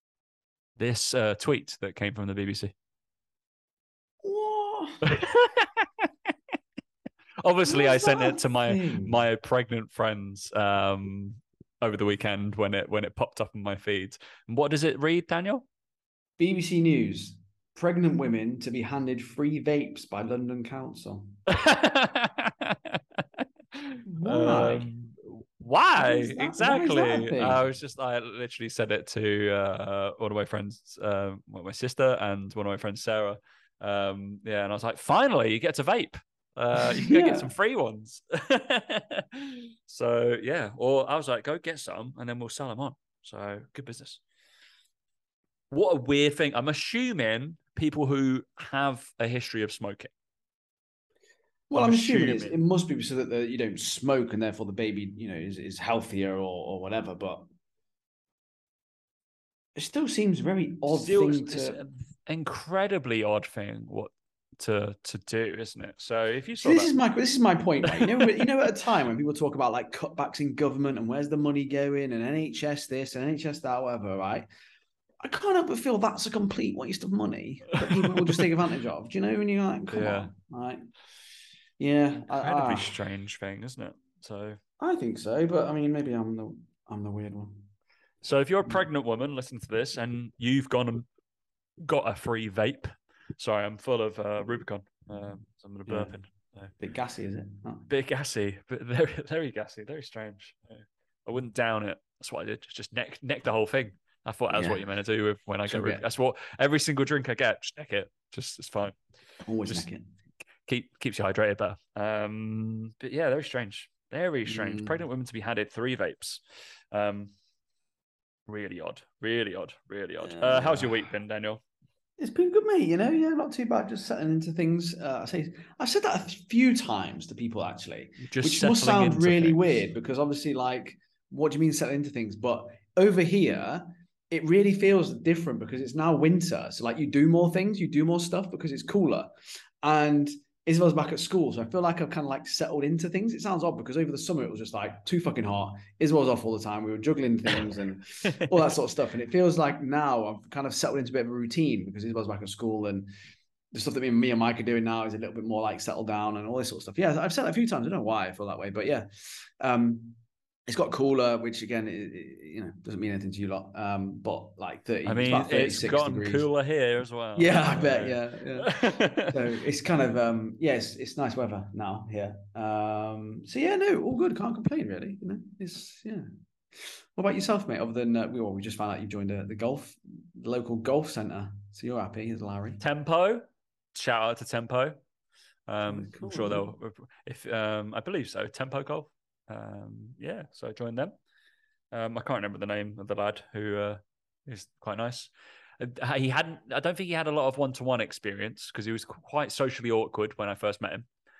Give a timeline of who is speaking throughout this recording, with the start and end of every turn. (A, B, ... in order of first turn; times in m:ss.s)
0:00.8-0:02.7 A
0:04.2-0:05.1 B
0:05.0-0:06.1 A
0:07.4-0:15.6 A
0:07.6-0:09.2 B
0:16.4-0:21.3 B
0:21.5-0:44.2 A
0:24.1-0:24.9 B
0:26.0-0:27.6 B
0:36.8-0:37.5 B
0:45.7-0:50.1 A
0:51.7-0:57.4 B
0:51.7-0:52.6 A
0:59.8-1:01.8 B
1:00.9-1:06.9 A
1:06.6-1:14.5 B
1:07.8-1:08.5 A
1:15.2-1:20.8 B
1:17.7-1:18.5 A
1:19.9-1:20.3 A
1:21.8-1:22.9 B
1:22.3-1:24.6 A
1:24.8-1:27.6 B
1:28.2-1:31.1 A
1:31.8-1:36.7 A
1:35.9-1:36.1 B
1:36.8-1:37.8 B
1:37.9-1:49.0 A
1:44.5-1:44.8 B
1:45.7-1:46.0 B
1:49.4-1:50.0 B
1:50.6-1:57.3 A
1:54.5-1:55.0 B
1:58.5-2:01.6 A
2:00.2-2:01.0 B
2:02.2-2:33.1 B
2:08.2-2:09.8 A
2:28.2-2:28.6 A
2:33.7-2:46.4 B
2:45.0-2:49.4 A
2:47.4-3:02.8 B
3:02.8-3:05.0 A
3:05.7-3:11.1 A
3:05.8-3:06.7 B
3:11.9-3:21.1 A